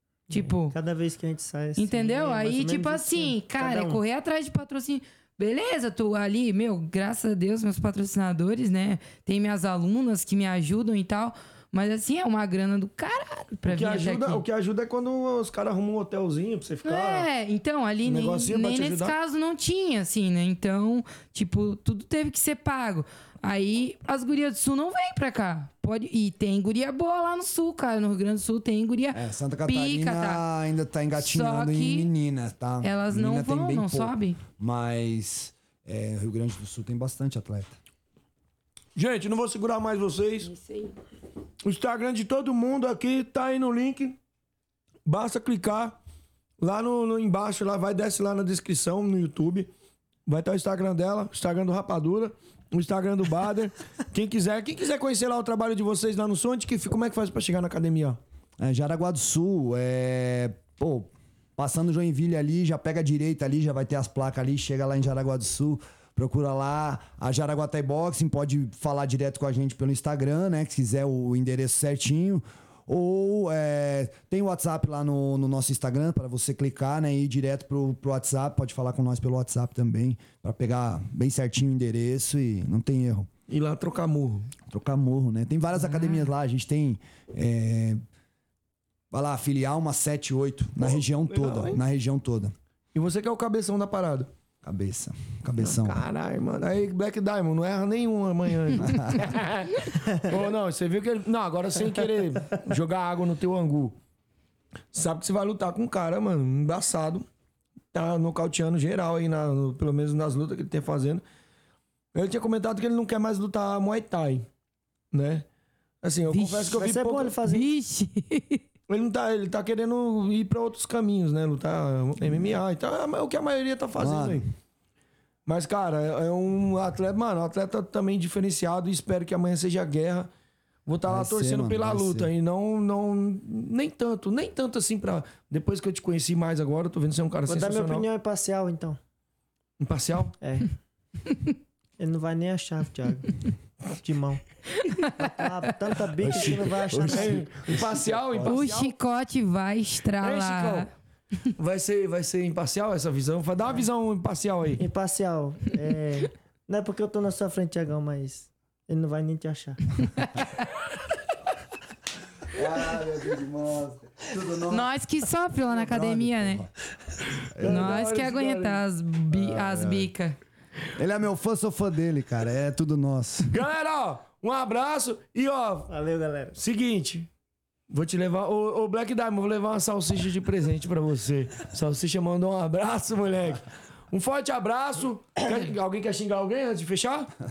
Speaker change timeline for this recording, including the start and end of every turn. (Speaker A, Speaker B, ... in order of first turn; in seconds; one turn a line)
Speaker A: 0.3-0.8
Speaker B: 0.3-4.0
Speaker A: 1.8-14.4
Speaker C: 13.7-17.3
Speaker A: 16.9-30.4
Speaker C: 18.0-19.1
Speaker D: 29.1-37.8
Speaker A: 31.2-32.1
Speaker A: 32.8-34.4
Speaker C: 39.0-40.5
Speaker A: 40.4-41.0
Speaker C: 41.6-44.2
Speaker C: 45.1-46.0
Speaker C: 46.6-49.7
Speaker C: 50.3-58.2
Speaker D: 58.6-83.3
Speaker C: 83.5-84.5
Speaker D: 84.7-88.0
Speaker D: 89.1-92.5
Speaker C: 90.8-91.8
Speaker C: 92.9-94.3
Speaker D: 94.6-96.0
Speaker C: 95.6-104.0
Speaker D: 98.8-99.3
Speaker C: 104.9-107.3
Speaker C: 107.9-111.2
Speaker C: 112.1-114.5
Speaker C: 115.1-115.5
Speaker C: 116.0-117.4
Speaker A: 116.3-116.8
Speaker B: 116.7-117.7
Speaker A: 117.4-118.6
Speaker C: 118.9-124.4
Speaker D: 122.2-122.5
Speaker D: 124.0-124.5
Speaker C: 125.5-130.3
Speaker C: 130.9-138.1
Speaker D: 131.0-132.3
Speaker B: 137.5-139.0
Speaker C: 139.8-140.3
Speaker B: 140.4-140.7
Speaker A: 141.3-141.6
Speaker B: 142.0-143.3
Speaker B: 143.9-144.4
Speaker A: 144.8-145.1
Speaker B: 145.2-147.5
Speaker D: 146.2-148.6
Speaker C: 147.1-149.0
Speaker A: 148.4-150.9
Speaker C: 150.2-150.9
Speaker C: 151.6-154.8
Speaker B: 154.8-159.8
Speaker D: 162.5-164.9
Speaker A: 164.7-166.6
Speaker D: 165.7-166.7
Speaker D: 167.5-167.9
Speaker C: 167.6-168.8
Speaker A: 167.6-170.4
Speaker D: 169.3-170.1
Speaker D: 171.0-173.6
Speaker C: 173.5-175.9
Speaker B: 175.9-176.6
Speaker C: 176.5-177.3
Speaker C: 177.9-187.3